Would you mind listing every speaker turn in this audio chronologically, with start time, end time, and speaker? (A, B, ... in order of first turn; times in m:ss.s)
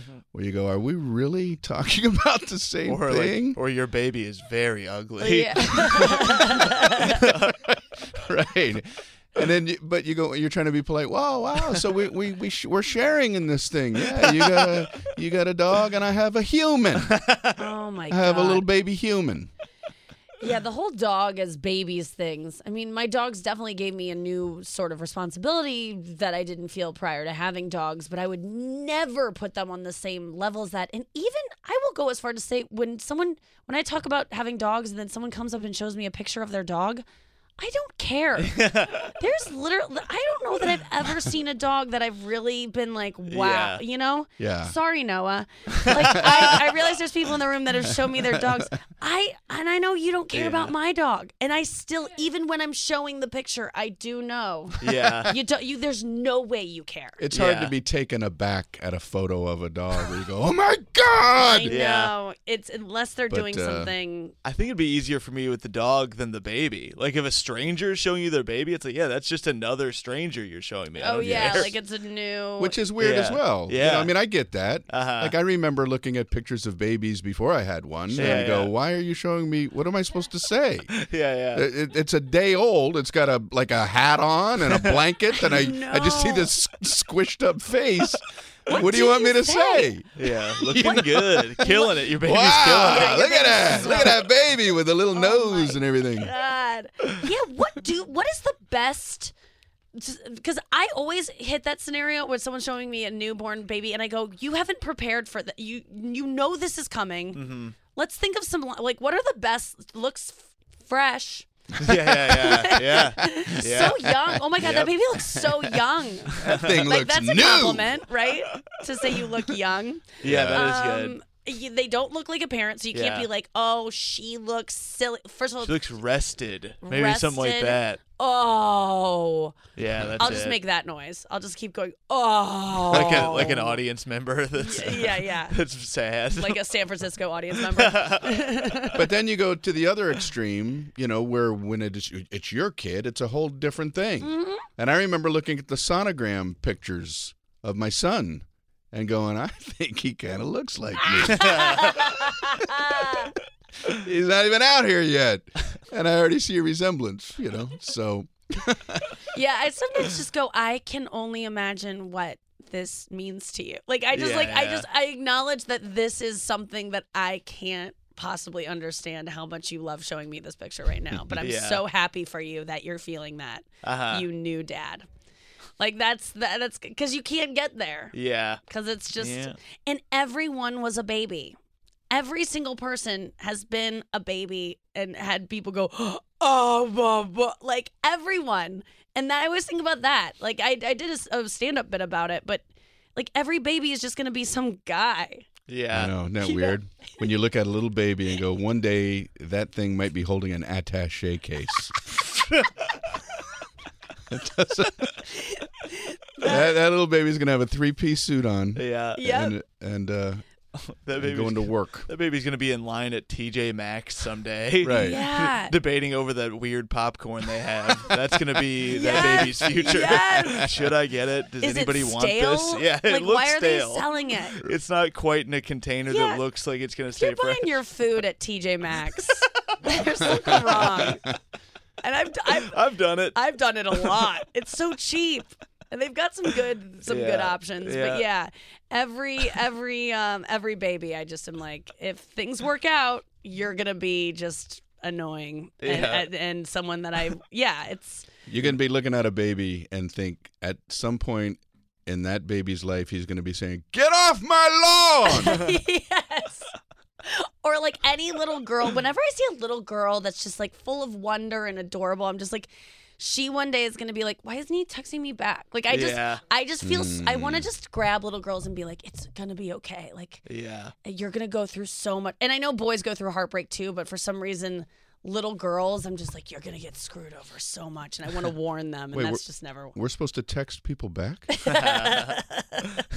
0:00.3-0:03.6 A
0:02.8-0:06.5 B
0:05.2-0:07.2 C
0:06.0-0:17.2 A
0:07.0-0:07.5 B
0:17.1-0:17.5 B
0:17.6-0:18.6 C
0:18.1-0:19.5 A
0:20.4-0:37.0 C
0:37.6-0:57.2 C
0:38.4-0:39.1 B
0:43.3-0:43.8 B
0:44.4-0:44.7 A
0:45.8-0:46.3 B
0:46.2-0:46.5 A
0:47.9-0:48.7 A
0:50.3-0:50.8 B
0:54.8-0:55.3 B
0:57.2-1:01.8 A
0:57.3-0:57.7 B
1:01.4-1:04.3 C
1:01.7-1:02.1 B
1:03.3-1:03.9 A
1:04.4-1:11.8 B
1:11.0-1:12.8 C
1:12.6-1:20.9 A
1:13.0-1:14.1 B
1:14.9-1:15.4 B
1:18.1-1:18.7 B
1:18.2-1:18.5 C
1:20.9-1:21.7 B
1:21.5-1:36.3 A
1:25.3-1:26.5 C
1:28.7-1:30.0 C
1:30.2-1:34.1 B
1:32.8-1:34.3 C
1:35.1-1:39.3 C
1:39.9-1:51.5 C
1:47.3-1:47.8 B
1:51.8-1:55.7 B
1:52.2-2:05.7 C
1:56.4-1:56.7 B
1:56.4-1:58.0 A
2:00.2-2:01.2 B
2:00.2-2:00.6 A
2:02.9-2:03.3 B
2:05.6-2:08.0 B
2:06.8-2:09.6 C
2:09.8-2:10.6 B
2:10.2-2:13.8 C
2:12.8-2:16.6 B
2:12.9-2:13.3 A
2:14.6-2:15.6 C
2:16.4-2:19.0 C
2:17.6-2:18.9 B
2:18.9-2:32.9 A
2:24.2-2:24.6 C
2:31.0-2:33.3 C
2:33.8-2:39.0 A
2:39.3-2:55.1 C
2:44.1-2:44.9 B
2:51.2-2:51.8 B
2:53.8-2:54.3 B
2:55.8-2:58.2 C
2:58.1-2:58.6 B
2:58.7-3:01.6 C
2:59.2-2:59.6 B
3:02.1-3:12.6 C
3:13.2-3:15.5 C
3:15.7-3:16.2 B
3:15.9-3:22.0 A
3:16.4-3:16.8 C
3:24.3-3:25.2 A
3:26.4-3:30.4 A
3:28.8-3:29.2 B
3:29.2-3:29.5 C
3:30.8-3:47.7 B
3:31.2-3:32.1 A
3:34.8-3:35.2 A
3:35.0-3:35.7 C
3:38.9-3:40.7 C
3:41.6-3:44.6 C
3:46.1-3:46.4 C
3:47.2-3:51.2 C
3:50.5-3:51.1 B
3:52.0-3:52.8 C
3:52.5-3:53.4 B
3:53.3-4:08.3 C
3:53.9-3:54.2 B
3:57.0-3:58.3 B
4:05.8-4:06.3 B
4:08.5-4:15.6 A
4:15.3-4:16.7 C
4:17.2-4:30.4 C
4:25.9-4:26.4 B
4:26.8-4:27.6 A
4:30.5-4:30.9 B
4:31.0-4:40.0 C
4:39.1-4:41.5 A
4:41.6-4:42.8 C
4:41.7-4:42.4 B